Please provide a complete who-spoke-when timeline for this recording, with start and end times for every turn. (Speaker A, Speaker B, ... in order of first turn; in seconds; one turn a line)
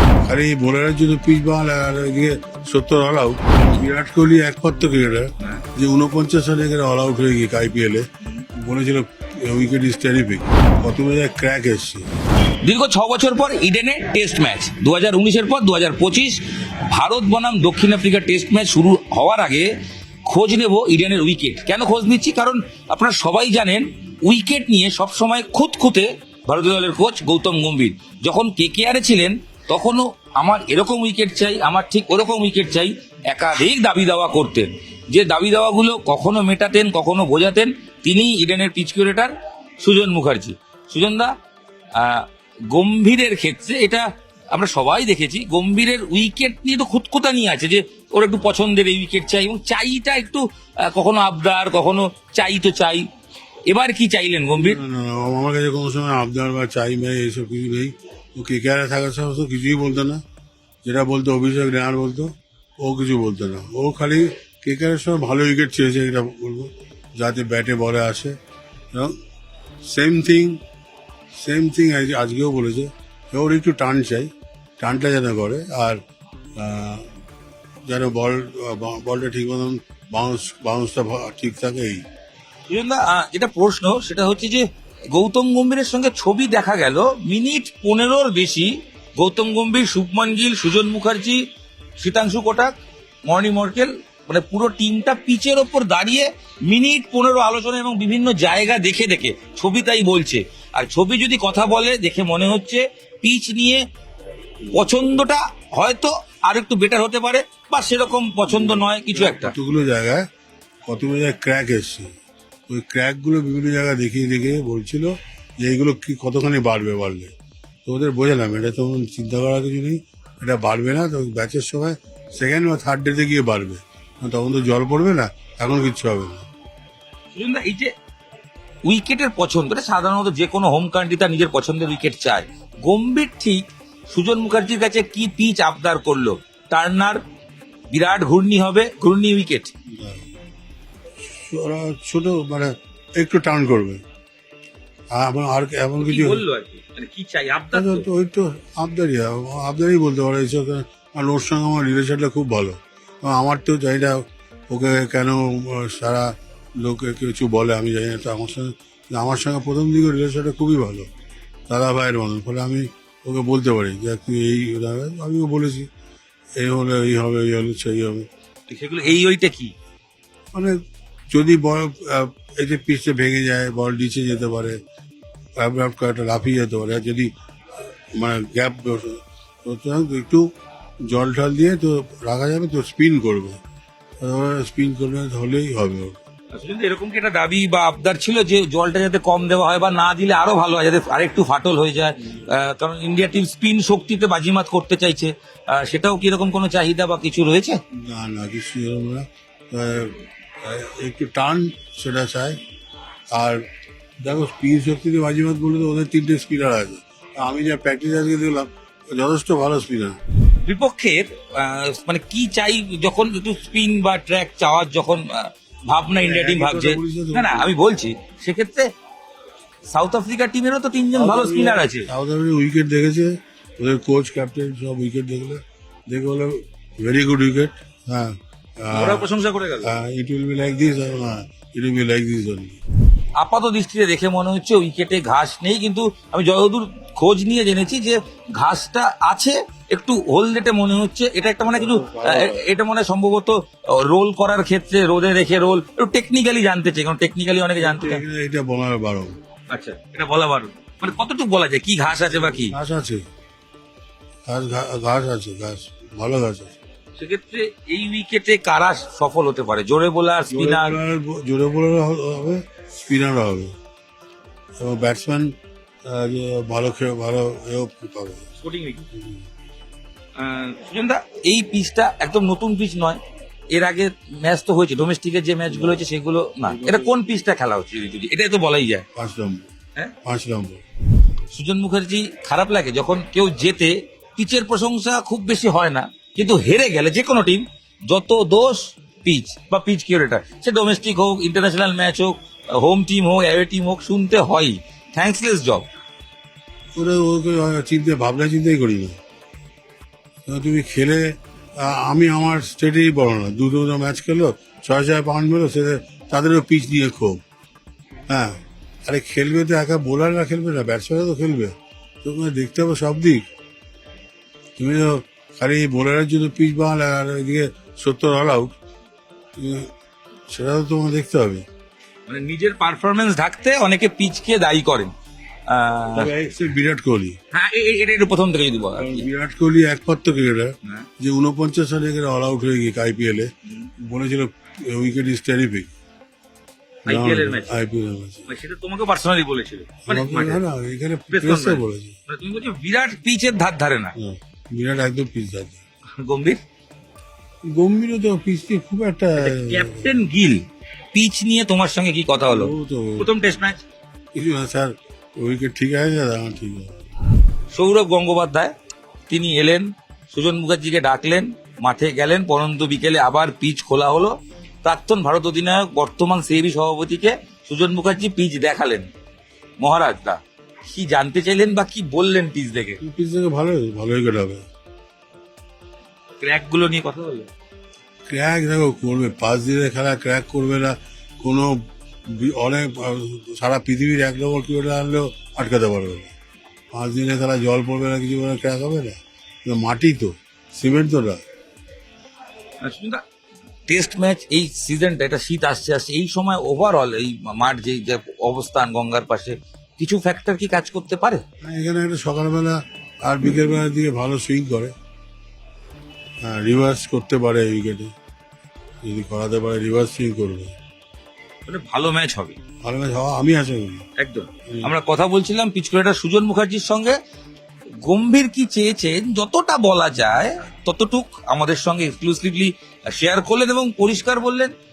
Speaker A: 0.2-12.1
Speaker B: 12.6-19.7
Speaker B: 20.2-41.3
Speaker B: 41.9-53.1
Speaker B: 53.7-54.8
Speaker A: 54.5-60.2
Speaker A: 60.8-68.3
Speaker A: 68.9-69.2
Speaker A: 69.8-70.6
Speaker A: 71.3-76.0
Speaker A: 76.6-77.1
Speaker A: 77.8-82.0
Speaker B: 82.7-91.4
Speaker B: 92.0-92.7
Speaker B: 93.3-103.8
Speaker B: 104.7-109.5
Speaker A: 108.5-110.2
Speaker A: 110.8-112.1
Speaker A: 112.7-117.3
Speaker A: 117.8-126.5
Speaker B: 127.3-127.9
Speaker B: 128.8-137.2
Speaker B: 137.9-139.7
Speaker A: 139.9-140.3
Speaker A: 141.2-144.0
Speaker A: 145.1-146.4
Speaker B: 146.0-148.1
Speaker A: 147.7-161.1
Speaker A: 161.7-165.9
Speaker A: 166.6-168.3
Speaker B: 168.7-169.7
Speaker A: 170.5-170.8
Speaker A: 171.3-174.8
Speaker A: 175.6-177.3
Speaker A: 178.1-180.5
Speaker A: 181.0-183.6
Speaker A: 184.2-186.2
Speaker B: 186.5-197.8
Speaker A: 198.0-202.6
Speaker A: 203.3-203.6
Speaker A: 204.2-210.2
Speaker B: 210.6-218.9
Speaker A: 216.2-217.7
Speaker B: 219.9-222.1
Speaker A: 221.1-229.3
Speaker B: 228.9-229.9
Speaker A: 229.8-232.8
Speaker B: 233.4-248.2
Speaker A: 241.7-242.7
Speaker A: 247.8-249.3
Speaker B: 249.7-252.8
Speaker A: 252.6-253.2
Speaker A: 254.5-256.8
Speaker B: 257.2-261.0
Speaker A: 260.5-263.7
Speaker A: 264.8-268.4
Speaker B: 268.6-269.1
Speaker A: 269.1-269.4
Speaker B: 270.4-273.2
Speaker B: 273.7-279.1
Speaker A: 275.7-276.0
Speaker A: 276.6-277.2
Speaker A: 279.1-279.7
Speaker A: 280.2-280.8
Speaker B: 281.5-295.9
Speaker A: 296.9-299.2
Speaker A: 300.4-307.4
Speaker A: 308.3-313.5
Speaker A: 314.8-318.7
Speaker A: 319.6-319.9
Speaker A: 320.5-321.6
Speaker B: 322.3-325.1
Speaker B: 325.7-326.3
Speaker A: 326.1-327.4
Speaker B: 327.5-329.3
Speaker A: 328.9-335.9
Speaker B: 333.6-333.9
Speaker B: 337.1-337.8
Speaker A: 337.1-338.5
Speaker B: 338.5-340.6
Speaker A: 340.1-342.2
Speaker B: 341.3-344.1
Speaker A: 344.1-345.8
Speaker B: 346.2-346.6
Speaker A: 347.7-350.1
Speaker B: 349.4-353.8
Speaker A: 352.4-353.3
Speaker A: 354.3-357.0
Speaker B: 357.7-358.7
Speaker B: 359.3-369.1
Speaker B: 369.8-373.0
Speaker A: 373.0-374.6
Speaker B: 376.4-377.5
Speaker A: 378.3-386.3
Speaker A: 386.9-391.4
Speaker B: 392.8-393.2
Speaker B: 393.9-401.4
Speaker A: 401.6-404.9
Speaker A: 406.4-408.1
Speaker A: 409.0-410.7
Speaker B: 411.7-412.6
Speaker A: 412.8-414.0
Speaker B: 414.2-417.2
Speaker A: 414.7-414.9
Speaker B: 418.0-424.7